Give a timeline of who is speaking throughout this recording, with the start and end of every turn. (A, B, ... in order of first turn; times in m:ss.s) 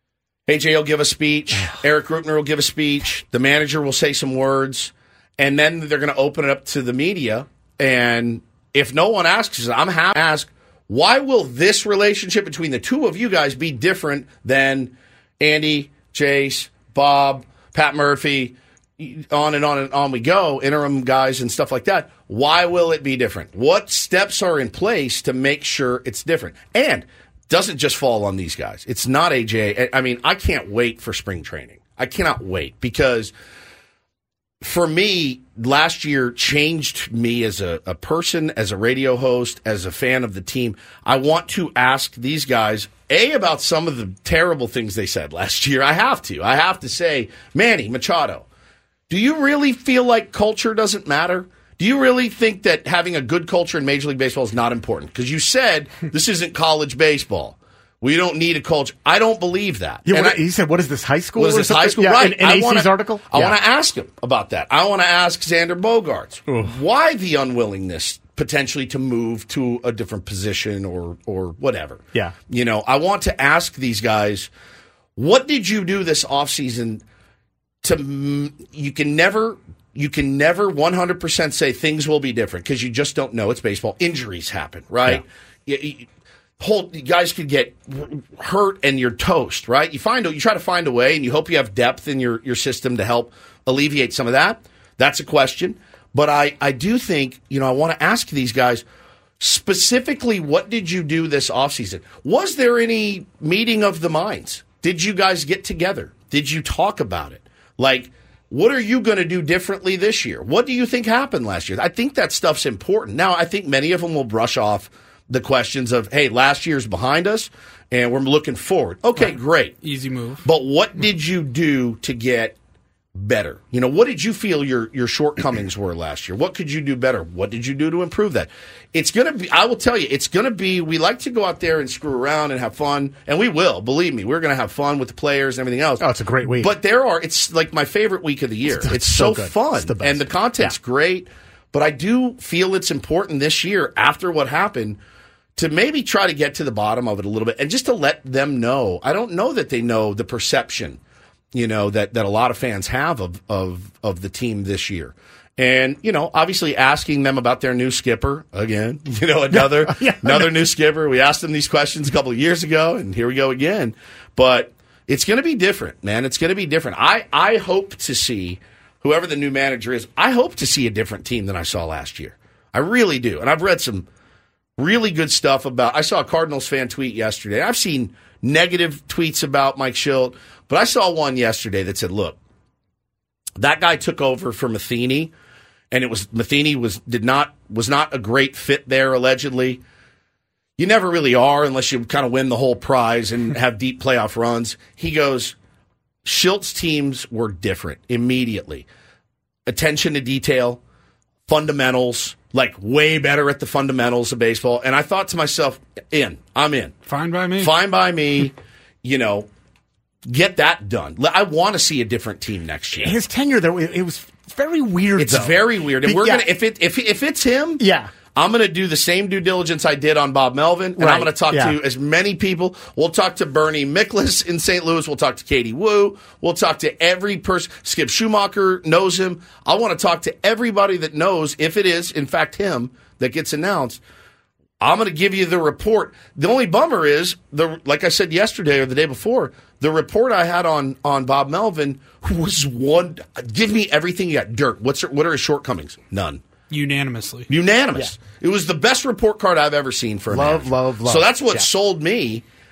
0:00.5-0:33.3 A
0:34.6-0:48.4 A
0:49.1-1:00.4 A
1:00.0-1:03.6 B
1:01.4-1:14.5 A
1:06.5-1:06.7 B
1:15.2-1:17.0 A
1:17.8-1:26.1 A
1:26.6-1:38.8 A
1:39.4-1:59.8 A
1:59.2-2:00.4 C
2:00.4-2:02.6 A
2:03.1-2:16.0 A
2:16.0-2:16.8 B
2:16.6-2:25.0 A
2:18.6-2:20.7 B
2:25.6-2:31.0 A
2:31.5-2:54.1 A
2:39.5-2:40.6 B
2:54.8-3:02.4 A
3:03.6-3:05.3 A
3:05.9-3:09.8 A
3:10.8-3:15.6 A
3:16.2-3:18.8 A
3:19.7-3:20.8 A
3:21.5-3:27.0 A
3:27.1-3:27.7 C
3:27.6-3:29.5 A
3:30.2-3:33.2 A
3:33.0-3:36.5 B
3:35.2-3:54.0 A
3:37.8-3:38.1 B
3:41.0-3:41.8 B
3:54.8-4:06.4 A
4:06.7-4:07.5 C
4:07.5-4:12.4 A
4:10.3-4:11.7 B